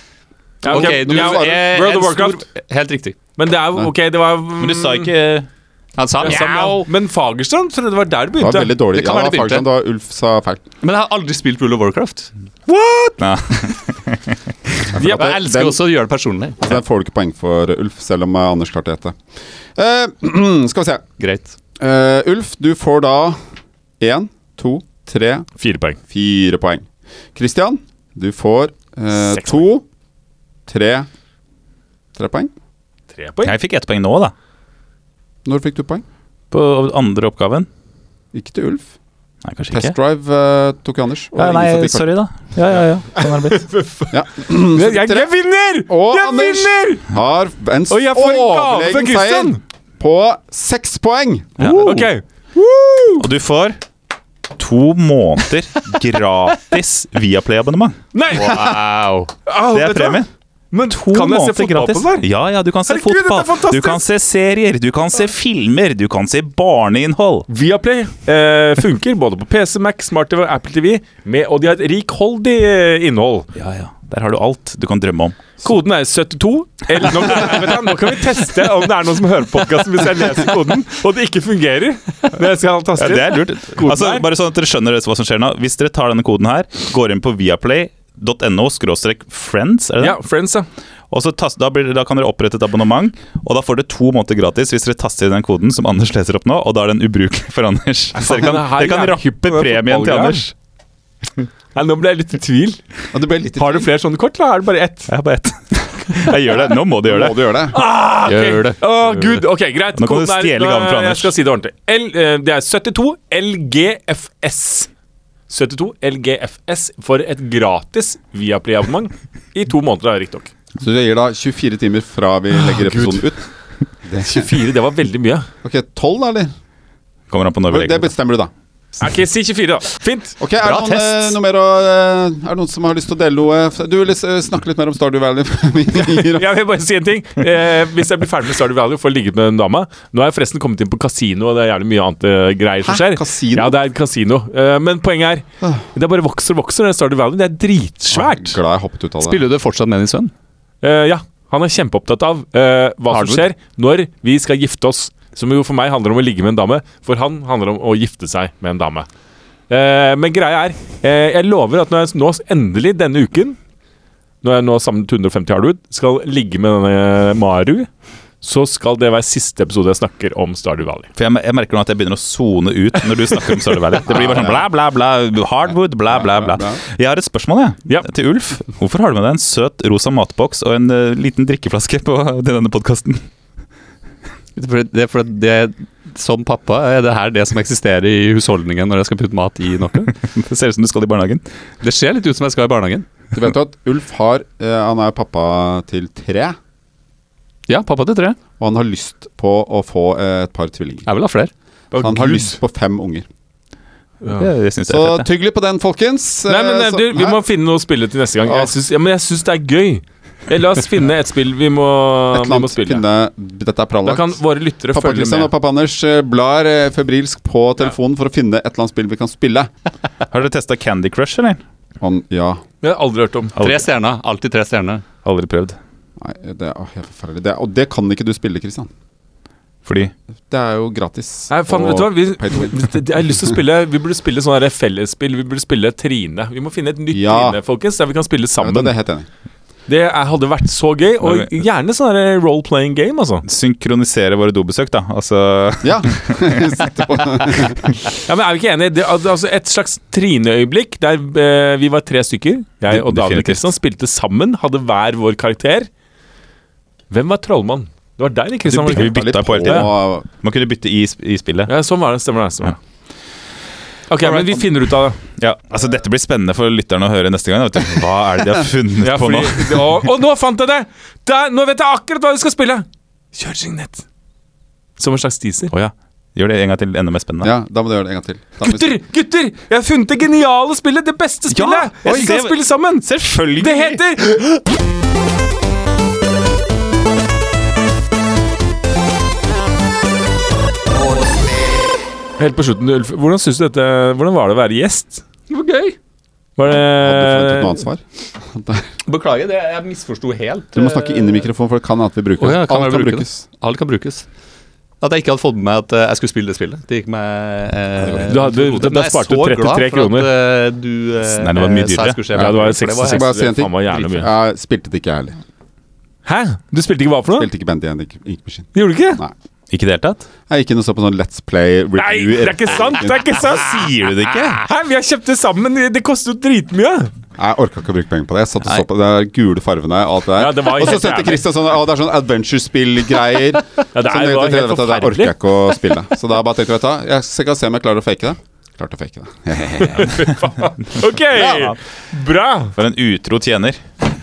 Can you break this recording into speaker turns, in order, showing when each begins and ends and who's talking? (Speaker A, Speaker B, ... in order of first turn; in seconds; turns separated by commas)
Speaker A: 0.6-3.2, Speaker B: 0.6-1.7, Speaker C: 0.6-2.5, Speaker C: 3.4-5.1, Speaker D: 4.6-5.5, Speaker A: 6.0-6.9, Speaker C: 6.2-8.8, Speaker B: 8.4-10.6, Speaker A: 8.9-9.7, Speaker A: 10.8-12.3, Speaker B: 12.8-13.1, Speaker D: 13.2-14.8, Speaker B: 14.9-15.8, Speaker A: 15.0-16.8, Speaker B: 16.6-19.2, Speaker B: 19.8-21.0, Speaker A: 21.2-21.6, Speaker B: 21.8-23.4, Speaker B: 24.0-25.5, Speaker C: 25.6-26.0, Speaker B: 26.1-29.9, Speaker C: 29.2-29.7, Speaker B: 30.7-31.1, Speaker B: 32.2-32.5, Speaker C: 33.1-33.5, Speaker D: 33.4-34.3, Speaker B: 35.5-36.0, Speaker D: 36.5-37.7, Speaker B: 38.3-38.9, Speaker D: 39.4-40.0, Speaker B: 39.7-42.1, Speaker D: 41.3-43.6, Speaker C: 43.1-47.0, Speaker B: 44.1-45.3, Speaker B: 45.9-52.0, Speaker C: 47.9-49.6, Speaker D: 51.6-52.1, Speaker C: 51.6-53.3, Speaker D: 53.2-53.8, Speaker D: 54.5-58.0, Speaker C: 58.1-58.8, Speaker A: 58.3-59.3, Speaker C: 59.5-62.3, Speaker D: 59.7-60.3, Speaker D: 60.9-67.5, Speaker C: 62.9-64.0, Speaker C: 67.5-73.5, Speaker D: 73.5-75.5, Speaker C: 75.6-84.2, Speaker D: 83.0-90.2, Speaker C: 90.0-90.7, Speaker D: 91.1-100.5, Speaker C: 98.2-100.4, Speaker C: 101.8-102.8, Speaker B: 103.1-103.9, Speaker C: 103.6-105.1, Speaker D: 105.1-107.5, Speaker B: 107.1-107.8, Speaker C: 107.7-114.9, Speaker A: 108.2-108.8, Speaker D: 110.0-111.3, Speaker C: 115.5-120.5, Speaker B: 120.8-123.4, Speaker C: 122.5-123.3, Speaker B: 124.1-124.5, Speaker C: 124.2-125.5, Speaker B: 125.6-126.5, Speaker D: 127.3-128.1, Speaker B: 127.7-128.5, Speaker C: 129.0-130.4, Speaker B: 130.4-136.5, Speaker A: 130.6-131.4, Speaker C: 136.0-148.6, Speaker B: 142.8-143.8, Speaker B: 148.1-149.4, Speaker A: 149.2-150.3, Speaker C: 150.8-159.1, Speaker A: 153.1-153.4, Speaker C: 159.7-163.6, Speaker C: 164.4-167.9, Speaker C: 168.4-171.1, Speaker D: 171.2-183.2, Speaker B: 174.1-174.7, Speaker B: 176.1-176.8, Speaker A: 184.6-190.1, Speaker D: 190.1-191.4, Speaker A: 191.8-193.1, Speaker B: 193.3-196.6, Speaker A: 197.7-198.4, Speaker B: 198.6-201.1, Speaker A: 201.1-201.5, Speaker C: 201.9-202.6, Speaker B: 201.9-203.3, Speaker D: 204.3-205.3, Speaker B: 204.9-207.4, Speaker C: 206.5-213.0, Speaker B: 208.5-208.7, Speaker B: 212.3-214.4, Speaker C: 214.1-215.5, Speaker B: 214.9-219.7, Speaker D: 220.3-221.6, Speaker B: 222.0-222.6, Speaker C: 222.8-223.6, Speaker D: 223.6-223.9, Speaker A: 223.6-225.0, Speaker D: 225.2-225.8, Speaker B: 226.2-228.9, Speaker D: 229.8-230.1, Speaker B: 230.5-233.3, Speaker C: 231.5-238.9, Speaker B: 237.1-237.6, Speaker B: 238.6-239.3, Speaker C: 239.9-243.4, Speaker D: 241.2-241.5, Speaker D: 243.4-246.6, Speaker B: 245.8-248.0, Speaker C: 248.3-255.9, Speaker D: 252.9-253.7, Speaker C: 257.1-259.9, Speaker B: 258.7-260.3, Speaker D: 258.9-261.7, Speaker C: 261.7-262.8, Speaker C: 264.1-265.2, Speaker D: 264.2-264.6, Speaker D: 265.4-270.1, Speaker C: 269.0-274.0, Speaker C: 275.0-275.7, Speaker D: 275.7-277.5, Speaker B: 277.4-279.0, Speaker C: 278.6-284.6, Speaker D: 281.5-284.0, Speaker C: 292.4-295.2, Speaker A: 295.5-296.0, Speaker C: 296.6-297.8, Speaker B: 296.9-298.9, Speaker A: 299.1-301.5, Speaker B: 300.8-303.5, Speaker A: 302.4-304.3, Speaker A: 305.0-313.6, Speaker B: 308.0-308.4, Speaker C: 308.3-310.3, Speaker D: 311.3-312.2, Speaker C: 312.3-314.3, Speaker B: 312.4-315.4, Speaker C: 316.2-317.5, Speaker B: 317.3-319.3, Speaker C: 318.8-319.2, Speaker D: 319.7-320.3, Speaker B: 320.5-323.3, Speaker C: 322.0-323.9, Speaker D: 323.2-324.6, Speaker C: 324.5-327.1, Speaker B: 327.4-340.3, Speaker C: 330.4-331.4, Speaker C: 333.9-335.3, Speaker C: 339.8-342.8, Speaker D: 341.3-341.8, Speaker B: 341.4-341.7, Speaker D: 342.8-343.8